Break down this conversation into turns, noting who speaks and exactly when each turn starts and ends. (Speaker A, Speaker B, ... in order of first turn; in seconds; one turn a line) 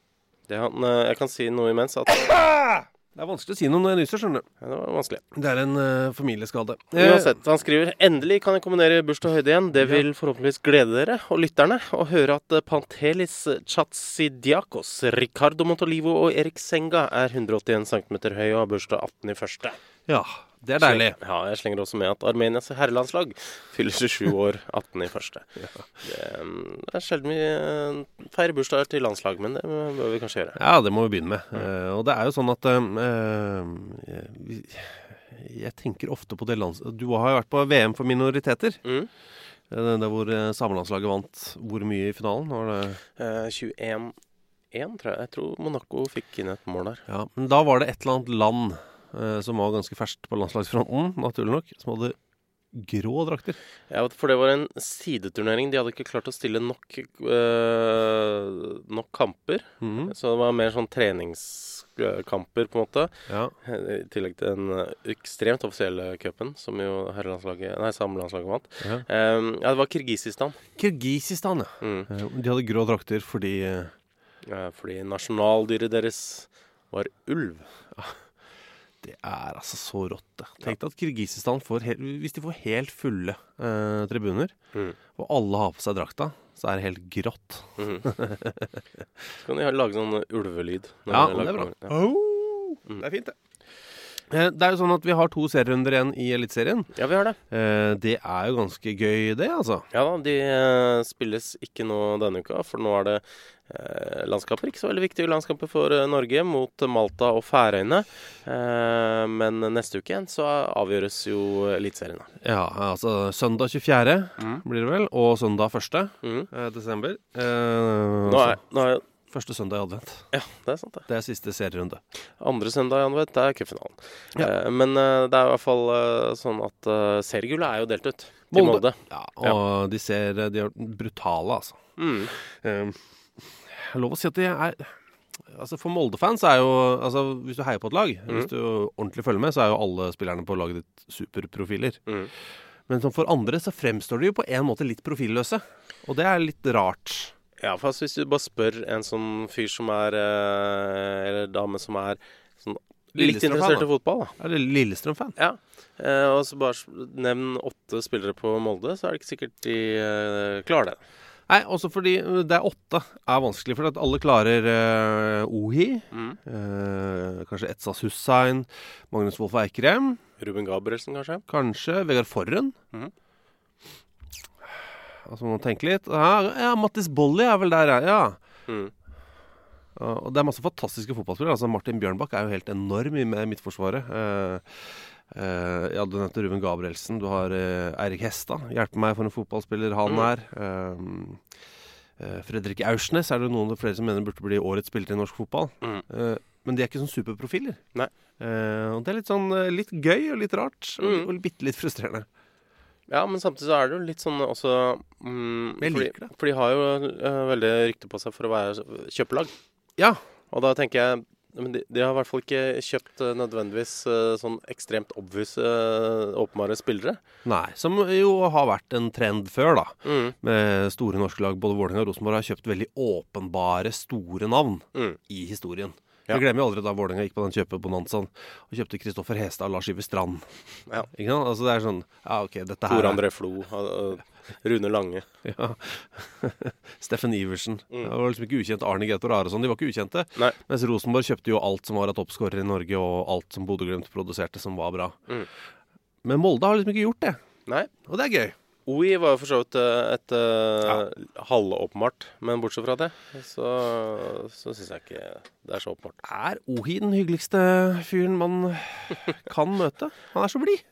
Speaker A: 0.5-2.3
Speaker B: 2.2-4.5
Speaker A: 4.6-5.2
Speaker B: 5.3-7.3
Speaker A: 6.9-19.8
Speaker B: 9.8-10.1
Speaker B: 20.1-21.2
Speaker A: 20.8-25.4
Speaker A: 26.0-30.6
Speaker B: 30.6-38.8
Speaker B: 39.7-43.0
Speaker A: 43.2-44.1
Speaker A: 44.7-47.0
Speaker B: 47.1-52.1
Speaker B: 52.7-53.6
Speaker A: 53.9-70.6
Speaker B: 59.8-60.1
Speaker B: 63.3-63.5
Speaker B: 70.8-73.9
Speaker A: 71.8-72.1
Speaker A: 74.5-77.7
Speaker B: 79.0-84.5
Speaker B: 85.2-88.8
Speaker A: 87.8-88.1
Speaker A: 89.4-92.0
Speaker B: 91.1-93.3
Speaker B: 94.3-96.9
Speaker A: 97.0-97.4
Speaker B: 97.5-99.9
Speaker A: 99.9-112.3
Speaker B: 112.4-118.6
Speaker A: 116.2-116.5
Speaker A: 118.2-119.0
Speaker B: 119.3-120.2
Speaker A: 120.3-121.0
Speaker B: 121.1-122.0
Speaker A: 122.4-129.6
Speaker B: 128.5-131.8
Speaker A: 132.0-132.3
Speaker B: 132.4-134.9
Speaker B: 135.5-142.0
Speaker B: 142.9-147.3
Speaker A: 147.6-154.3
Speaker B: 153.1-155.3
Speaker A: 155.4-161.0
Speaker B: 161.5-170.2
Speaker A: 166.1-166.4
Speaker A: 170.4-171.4
Speaker B: 171.5-172.8
Speaker B: 175.2-178.4
Speaker B: 179.9-191.4
Speaker B: 192.2-197.8
Speaker B: 198.4-202.3
Speaker A: 201.0-201.3
Speaker A: 203.1-209.5
Speaker B: 205.8-206.3
Speaker A: 210.5-217.2
Speaker B: 217.4-230.4
Speaker A: 220.0-220.3
Speaker B: 231.1-233.2
Speaker A: 232.9-235.2
Speaker B: 235.4-245.2
Speaker B: 246.2-247.4
Speaker B: 248.0-248.5
Speaker A: 248.8-256.2
Speaker B: 256.2-260.8